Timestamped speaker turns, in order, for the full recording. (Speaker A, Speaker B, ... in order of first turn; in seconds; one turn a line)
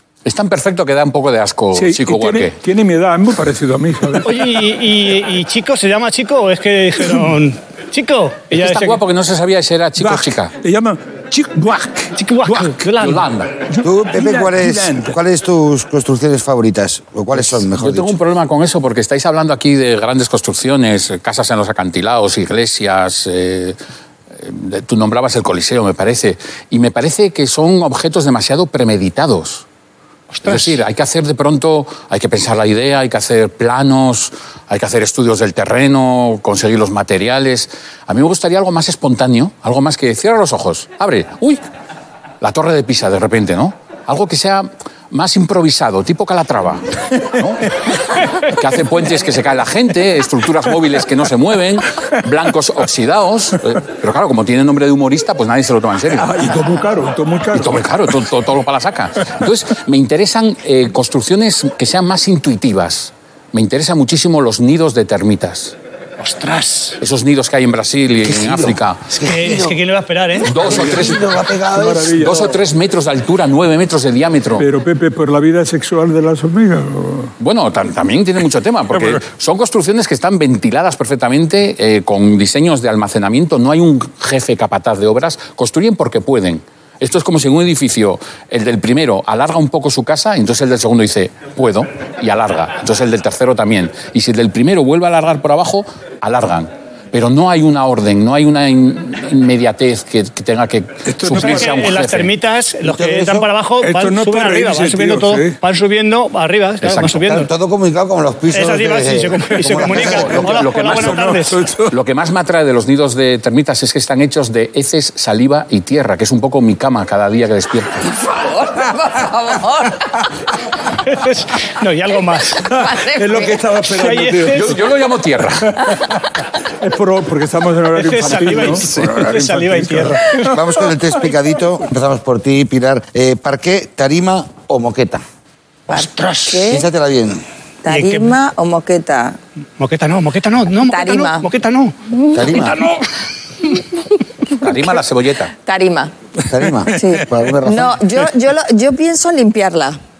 Speaker A: 0.2-2.6
Speaker B: 1.7-4.5
Speaker C: 4.2-9.0
Speaker A: 8.5-10.5
Speaker B: 10.0-12.9
Speaker C: 12.2-13.3
Speaker A: 13.0-13.5
Speaker B: 13.7-15.2
Speaker D: 13.8-18.2
Speaker A: 17.6-23.8
Speaker A: 24.4-29.7
Speaker C: 30.3-30.8
Speaker A: 30.4-41.6
Speaker A: 42.4-47.6
Speaker A: 48.2-56.4
Speaker B: 56.1-58.3
Speaker A: 57.5-65.8
Speaker C: 66.2-67.0
Speaker A: 67.0-69.0
Speaker D: 68.2-69.8
Speaker C: 69.3-70.5
Speaker A: 70.5-71.2
Speaker D: 70.5-72.5
Speaker B: 70.6-71.2
Speaker B: 71.7-72.6
Speaker A: 72.2-74.7
Speaker B: 74.6-77.3
Speaker A: 77.4-102.3
Speaker B: 78.9-79.2
Speaker B: 101.1-102.0
Speaker C: 101.3-107.5
Speaker D: 102.8-103.5
Speaker B: 103.8-105.6
Speaker A: 106.8-107.5
Speaker D: 107.5-110.7
Speaker C: 108.5-111.6
Speaker A: 110.0-111.3
Speaker B: 110.4-112.0
Speaker A: 111.9-118.1
Speaker E: 118.1-120.3
Speaker C: 121.0-122.7
Speaker E: 122.7-123.7
Speaker B: 122.7-124.8
Speaker C: 123.9-124.7
Speaker A: 124.5-125.9
Speaker B: 125.7-126.2
Speaker B: 126.8-130.8
Speaker C: 127.9-130.4
Speaker D: 130.5-135.2
Speaker C: 135.9-136.7
Speaker E: 135.9-136.9
Speaker D: 136.7-137.4
Speaker E: 137.8-139.4
Speaker C: 137.9-138.3
Speaker C: 139.8-141.9
Speaker E: 140.8-141.5
Speaker E: 142.1-142.8
Speaker D: 142.3-142.8
Speaker C: 142.5-142.9
Speaker A: 144.6-145.5
Speaker E: 145.6-146.1
Speaker D: 146.5-148.0
Speaker E: 146.9-150.0